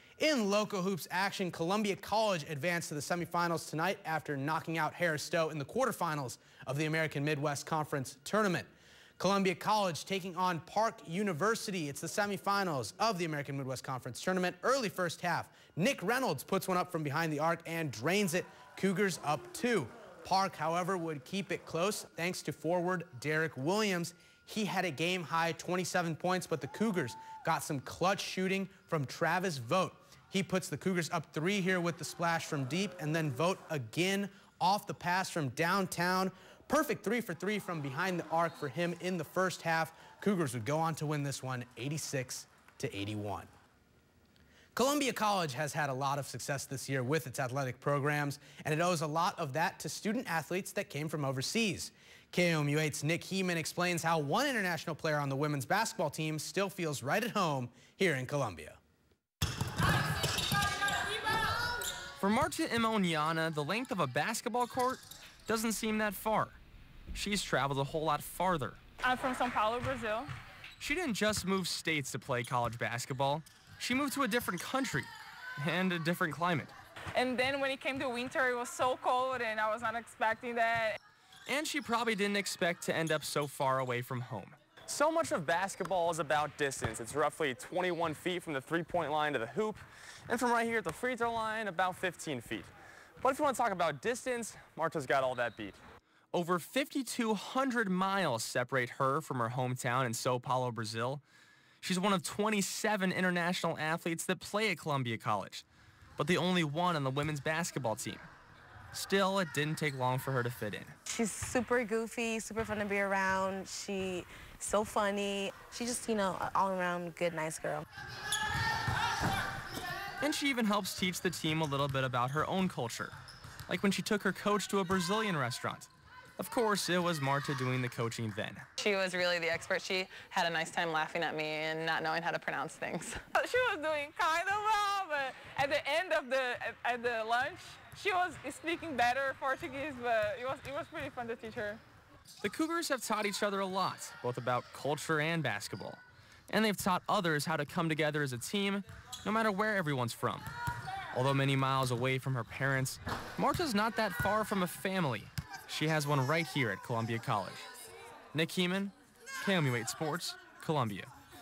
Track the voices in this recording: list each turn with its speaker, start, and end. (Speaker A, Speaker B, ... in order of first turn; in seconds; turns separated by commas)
Speaker A: 0.2-43.5, Speaker A: 44.7-58.8, Speaker B: 62.2-66.6, Speaker B: 67.1-68.8, Speaker C: 69.0-70.3, Speaker B: 70.8-76.7, Speaker C: 77.2-81.0, Speaker B: 81.5-92.7, Speaker B: 93.2-95.8, Speaker B: 96.3-101.2, Speaker B: 101.8-105.6, Speaker B: 106.2-108.2, Speaker B: 108.9-110.9, Speaker D: 111.1-117.8, Speaker B: 120.2-123.2, Speaker B: 123.7-128.6, Speaker E: 128.8-133.2, Speaker C: 133.3-141.8, Speaker B: 142.4-150.5, Speaker B: 151.1-157.6, Speaker B: 158.3-161.1